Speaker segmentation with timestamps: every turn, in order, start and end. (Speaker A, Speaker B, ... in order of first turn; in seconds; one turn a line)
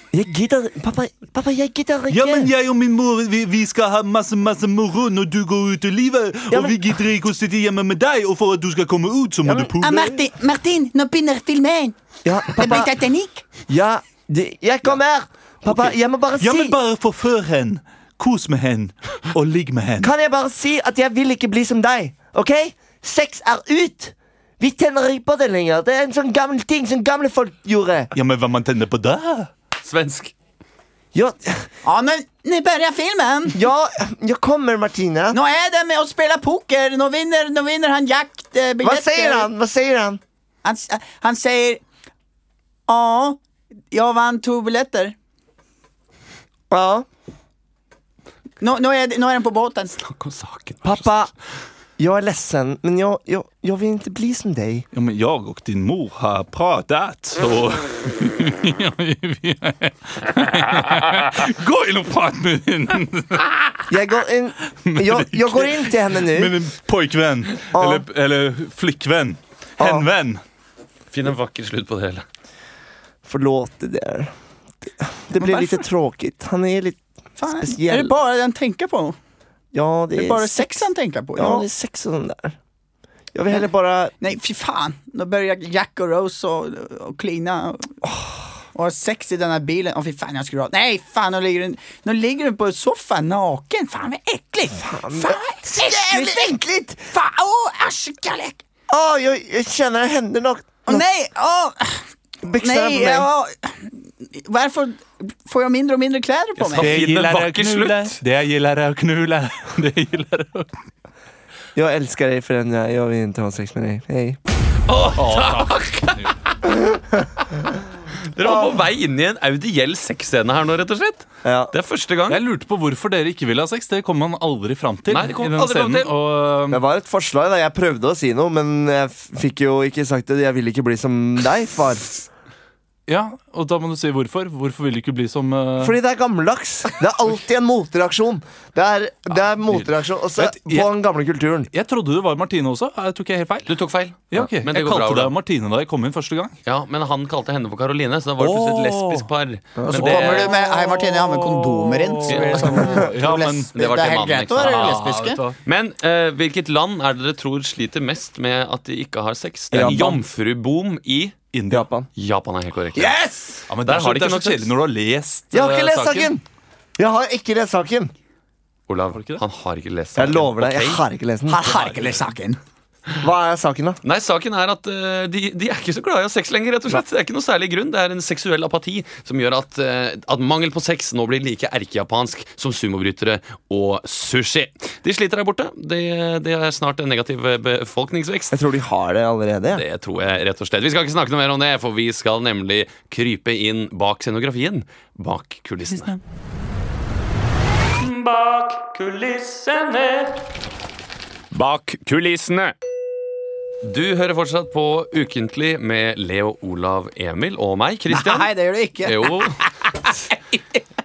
Speaker A: 0.1-2.5
Speaker B: 2.1-10.1
Speaker A: 6.5-6.8
Speaker A: 9.4-10.0
Speaker C: 9.8-13.5
Speaker A: 12.2-12.9
Speaker A: 13.7-16.8
Speaker B: 15.7-20.1
Speaker A: 20.0-28.1
Speaker B: 28.1-29.5
Speaker D: 29.8-30.3
Speaker A: 31.1-31.7
Speaker C: 31.8-33.6
Speaker A: 33.5-35.4
Speaker C: 35.3-39.5
Speaker A: 38.8-40.2
Speaker C: 40.6-41.8
Speaker C: 42.9-43.4
Speaker C: 43.9-45.1
Speaker A: 46.7-47.1
Speaker C: 48.6-50.0
Speaker D: 50.0-51.1
Speaker A: 50.8-51.3
Speaker A: 52.0-54.9
Speaker B: 54.9-63.8
Speaker A: 63.9-66.6
Speaker B: 64.9-70.4
Speaker A: 67.7-68.1
Speaker A: 69.8-70.1
Speaker D: 71.1-72.3
Speaker A: 73.2-74.3
Speaker A: 74.8-78.2
Speaker C: 75.3-75.9
Speaker C: 77.4-79.2
Speaker A: 79.7-82.6
Speaker C: 80.2-81.7
Speaker A: 83.3-84.1
Speaker C: 84.2-88.0
Speaker C: 88.7-98.6
Speaker A: 94.8-96.7
Speaker A: 98.9-101.0
Speaker C: 100.9-107.0
Speaker A: 102.4-103.3
Speaker D: 106.6-108.2
Speaker B: 106.8-110.7
Speaker A: 111.8-114.4
Speaker D: 114.9-116.4
Speaker B: 115.2-116.3
Speaker A: 116.8-117.3
Speaker D: 118.2-122.4
Speaker A: 118.4-118.8
Speaker A: 121.4-121.7
Speaker B: 122.3-126.8
Speaker D: 125.1-126.1
Speaker A: 126.7-132.2
Speaker B: 133.1-136.0
Speaker A: 135.8-141.7
Speaker B: 139.5-140.9
Speaker B: 141.7-143.7
Speaker D: 143.7-145.4
Speaker B: 144.3-146.6
Speaker D: 146.7-150.5
Speaker B: 148.4-149.3
Speaker A: 149.8-150.1
Speaker C: 149.8-155.4
Speaker B: 150.0-153.7
Speaker D: 152.3-153.1
Speaker D: 153.7-155.0
Speaker B: 154.6-155.6
Speaker D: 155.6-161.4
Speaker B: 159.7-160.1
Speaker A: 159.7-160.2
Speaker B: 161.5-161.9
Speaker A: 161.7-162.1
Speaker D: 162.2-163.2
Speaker C: 163.0-163.4
Speaker B: 163.7-165.6
Speaker D: 163.7-164.7
Speaker A: 165.5-166.4
Speaker D: 165.6-166.3
Speaker A: 167.0-168.1
Speaker D: 168.9-171.0
Speaker B: 169.2-169.4
Speaker A: 170.2-171.7
Speaker C: 171.5-172.6
Speaker B: 171.7-172.2
Speaker A: 173.2-174.0
Speaker D: 174.0-188.6
Speaker A: 188.5-189.8
Speaker D: 189.7-196.2
Speaker D: 198.0-200.4
Speaker D: 201.5-202.7
Speaker D: 203.8-208.5
Speaker C: 208.1-210.1
Speaker D: 209.0-209.6